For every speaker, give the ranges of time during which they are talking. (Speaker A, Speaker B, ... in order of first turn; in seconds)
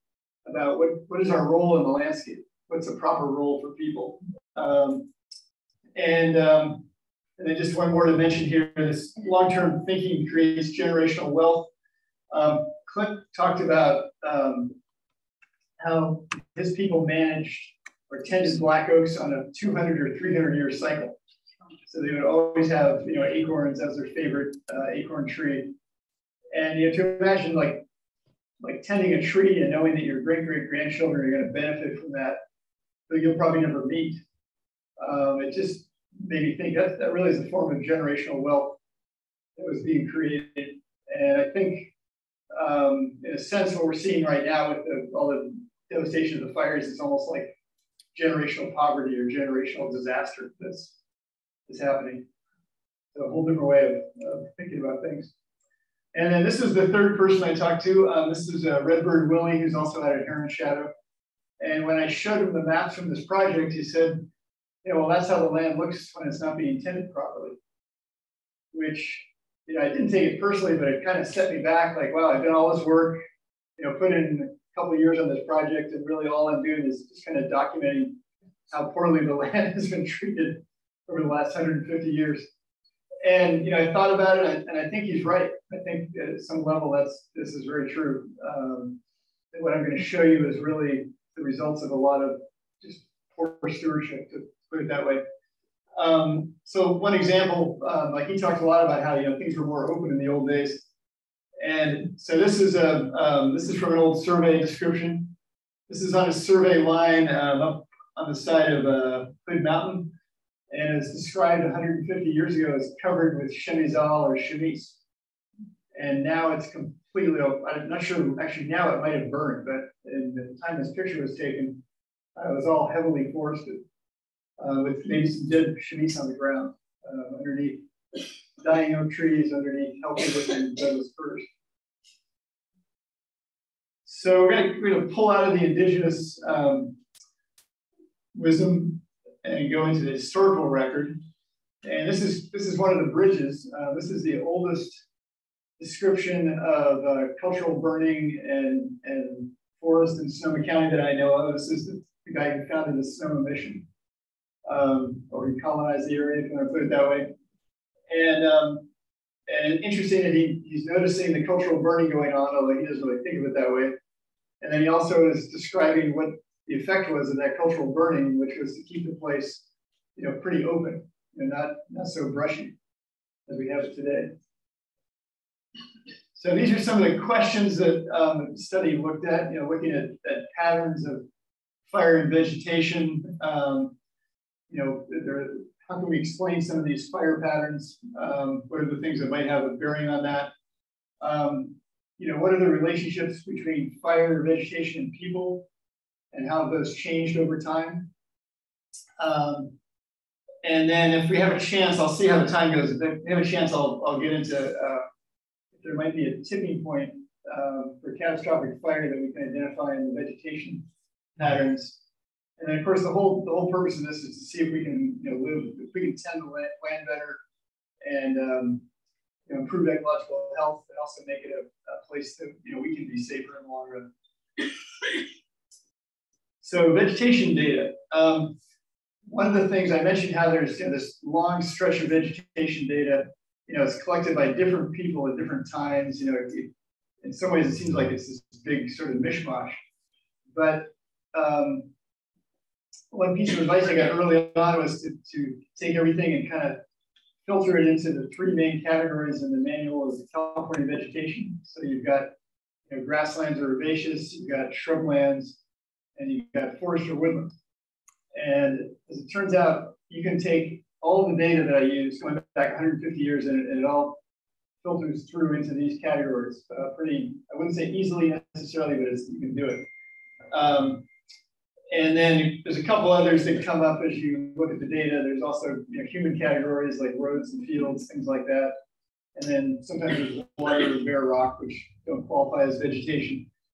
Speaker A: 0.5-5.1, 6.0-6.8, 7.4-11.7, 12.3-14.8, 15.8-21.2, 21.9-25.7, 26.5-27.8, 28.6-32.4, 33.1-34.2, 35.0-38.8, 39.6-41.9, 42.5-47.5, 48.1-51.0, 51.7-52.3, 53.1-55.3, 56.1-60.9, 61.6-64.3, 64.8-67.6, 68.7-73.2, 73.8-78.2, 78.7-82.5, 83.2-89.0, 89.5-95.2, 96.0-100.9, 101.6-105.3, 105.9-110.1, 110.7-115.0, 115.9-121.8, 122.4-123.8, 124.6-127.8, 128.6-131.5, 134.1-137.0, 138.3-141.2, 141.8-145.0, 145.8-153.8, 154.7-157.3, 158.1-158.9, 159.5-163.9, 164.6-169.6, 170.2-172.7, 173.5-174.3, 176.3-181.2, 181.9-183.9, 184.7-190.5, 191.2-195.7, 196.3-198.1, 199.2-199.7, 200.6-205.1, 205.8-210.9, 211.4-212.0, 212.6-217.4, 218.0-218.8, 219.5-224.1, 226.6-228.6, 229.3-236.7, 237.2-239.8, 240.5-241.9, 243.1-246.8, 247.4-252.3, 252.9-255.6, 256.2-257.5, 258.4-264.2, 264.8-269.9, 270.5-271.1, 271.9-278.7, 279.4-283.5